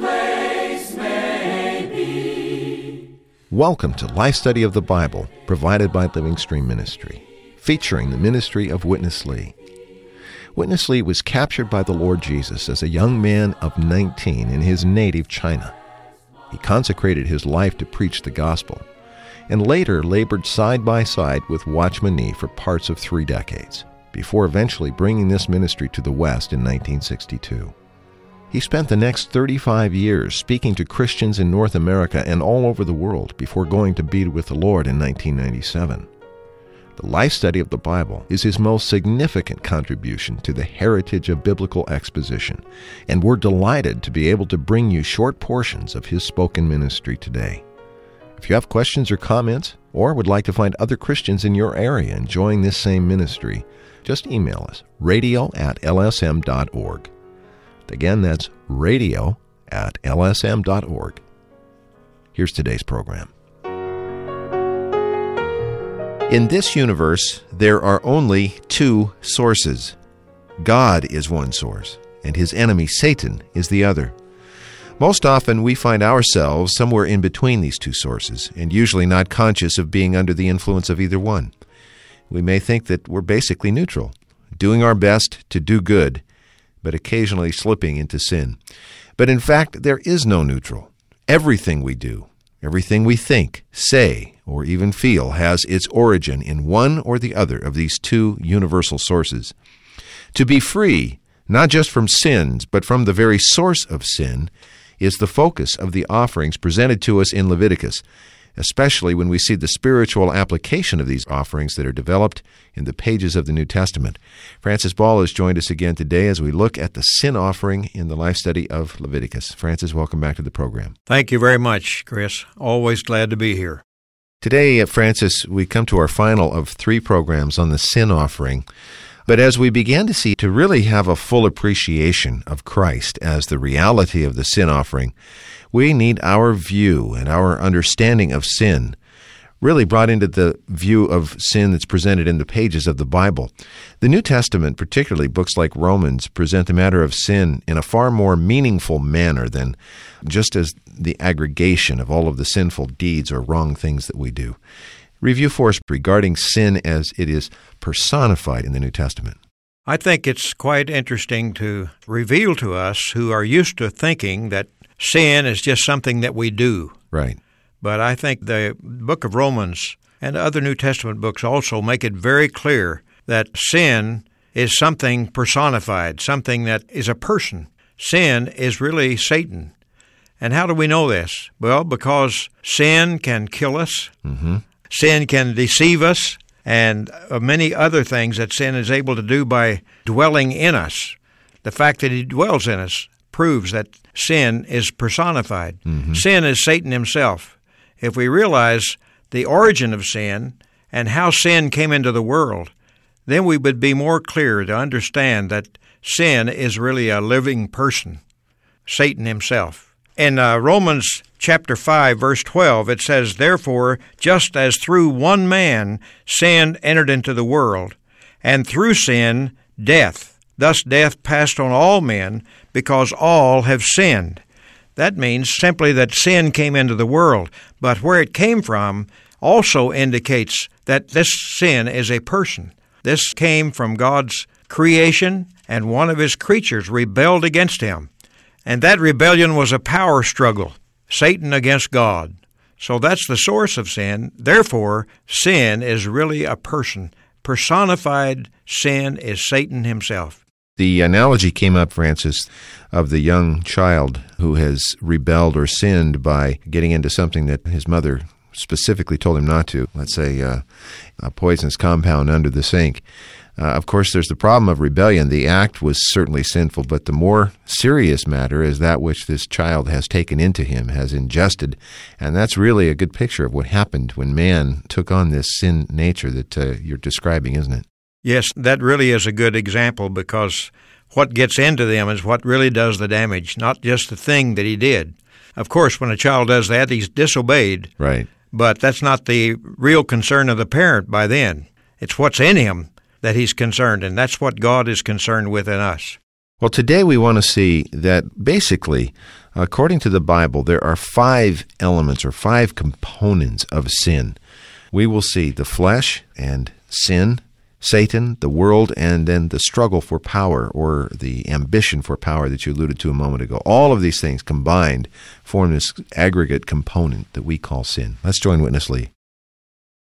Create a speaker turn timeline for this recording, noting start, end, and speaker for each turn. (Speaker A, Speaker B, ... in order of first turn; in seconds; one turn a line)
Speaker A: 3.5-9.6
Speaker A: 10.5-15.8
Speaker A: 16.5-18.8
Speaker A: 19.5-27.7
Speaker A: 28.5-36.1
Speaker A: 37.0-47.6
Speaker A: 48.4-57.1
Speaker A: 57.9-61.2
Speaker A: 62.3-63.3
Speaker A: 66.3-70.0
Speaker A: 70.6-74.2
Speaker A: 75.0-81.5
Speaker A: 82.3-86.2
Speaker A: 86.8-88.6
Speaker A: 89.2-99.5
Speaker A: 100.3-108.0
Speaker A: 108.6-120.9
Speaker B: 121.1-123.8
Speaker A: 124.4-128.7
Speaker A: 129.2-135.1
Speaker A: 135.7-139.0
Speaker A: 139.6-154.6
Speaker A: 155.2-159.4
Speaker B: 159.8-167.0
Speaker A: 167.1-167.4
Speaker B: 167.8-179.7
Speaker B: 180.4-184.1
Speaker A: 184.2-184.6
Speaker B: 184.9-202.7
Speaker A: 195.9-196.2
Speaker B: 203.3-208.2
Speaker B: 208.9-224.4
Speaker B: 225.0-238.1
Speaker B: 238.7-250.4
Speaker A: 250.8-260.6
Speaker A: 261.2-263.0
Speaker A: 263.6-277.9
Speaker B: 278.2-287.9
Speaker A: 288.0-288.3
Speaker B: 288.5-296.2
Speaker A: 296.6-304.4
Speaker A: 304.9-319.1